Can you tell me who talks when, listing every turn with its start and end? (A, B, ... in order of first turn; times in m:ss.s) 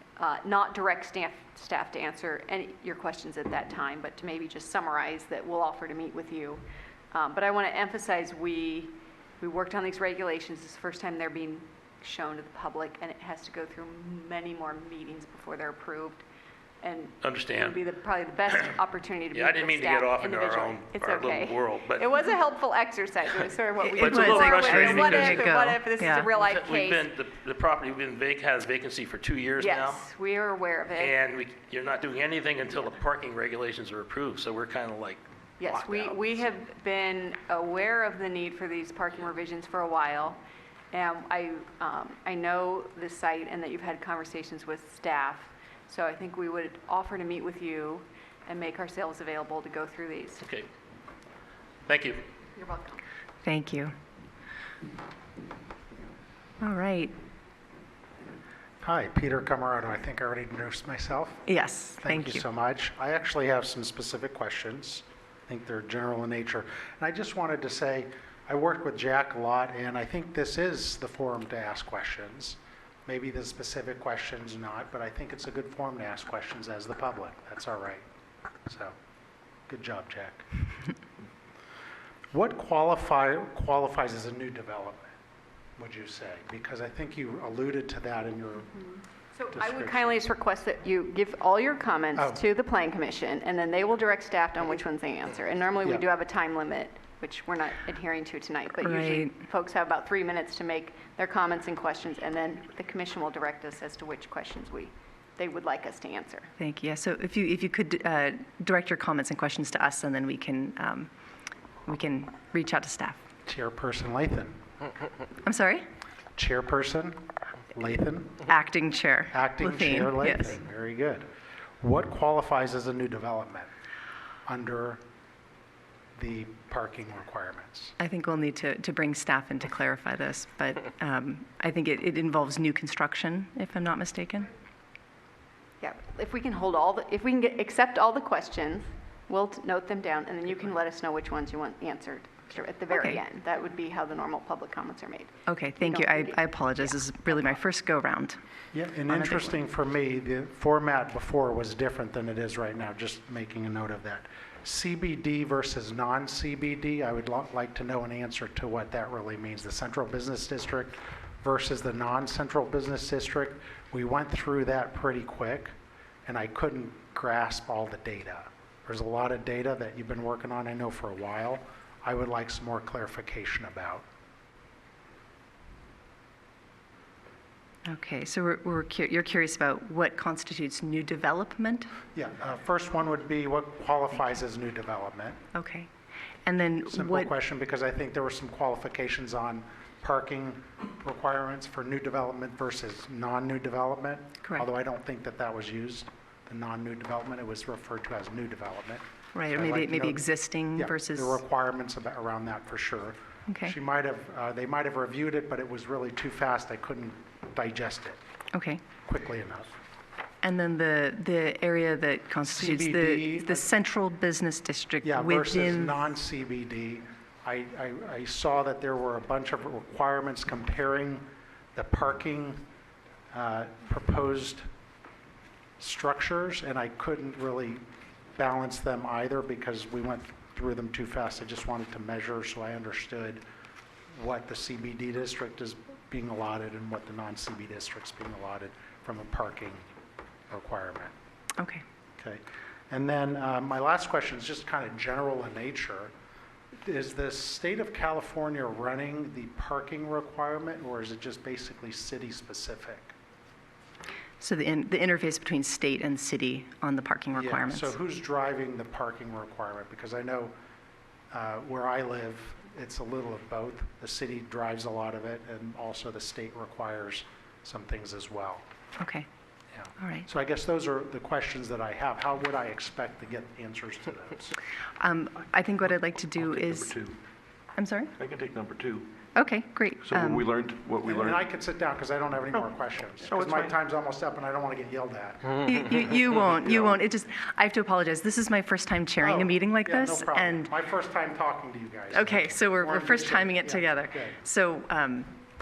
0:00.2-0:16.3 A
0:16.8-0:27.1 A
0:17.2-0:17.8 B
0:19.3-0:22.1 B
0:23.8-0:25.5 B
0:24.0-0:26.3 C
0:26.3-0:30.1 B
0:29.6-0:31.2 A
0:31.0-0:36.4 B
0:35.6-0:40.4 A
0:40.9-0:50.4 A
0:51.8-0:52.2 B
0:52.5-0:53.0 A
0:53.4-0:53.9 C
0:56.6-0:57.1 C
0:58.8-1:01.4 D
1:01.5-1:02.4 C
1:02.0-1:18.0 D
1:18.6-1:18.9 D
1:19.7-1:20.4 D
1:22.3-1:25.1 D
1:25.8-1:28.7 D
1:28.7-1:46.5 A
1:29.5-1:30.2 D
1:38.8-1:39.3 C
1:46.6-1:51.1 C
1:51.8-1:53.2 C
1:53.4-1:54.6 D
1:55.4-1:55.8 C
1:56.4-1:58.4 D
1:58.5-2:00.6 C
1:59.3-2:01.2 D
2:01.8-2:03.7 D
2:04.4-2:05.0 D
2:06.2-2:07.9 D
2:08.0-2:14.5 C
2:15.8-2:26.4 A
2:22.9-2:23.2 C
2:25.5-2:28.4 C
2:28.7-2:45.7 D
2:29.1-2:29.6 C
2:46.2-2:54.0 D
2:57.9-3:01.9 C
3:02.1-3:05.4 D
3:05.5-3:05.9 C
3:06.4-3:07.3 C
3:06.9-3:28.2 D
3:19.3-3:21.4 C
3:23.5-3:23.7 C
3:28.5-3:28.8 C
3:29.0-3:29.7 D
3:30.4-3:36.0 C
3:32.4-3:33.7 D
3:35.0-3:42.6 D
3:43.3-3:44.6 D
3:45.8-3:47.8 D
3:48.4-3:53.4 D
3:54.1-3:59.8 D
4:00.5-4:01.1 D
4:01.6-4:01.8 C
4:02.2-4:06.1 D
4:06.8-4:13.1 D
4:14.4-4:17.9 C
4:17.3-4:20.5 D
4:21.3-4:28.6 D
4:29.0-4:29.3 C
4:29.7-4:34.6 D
4:30.0-4:30.3 C
4:35.0-4:37.0 C
4:36.3-4:37.2 E
4:37.8-4:38.1 C
4:38.2-4:39.1 E
4:39.4-4:40.5 C
4:40.0-4:41.4 E
4:41.0-4:45.6 D
4:43.2-4:43.7 E
4:45.6-4:50.7 C
4:46.6-4:46.9 E
4:49.2-4:54.4 D
4:52.1-4:55.3 C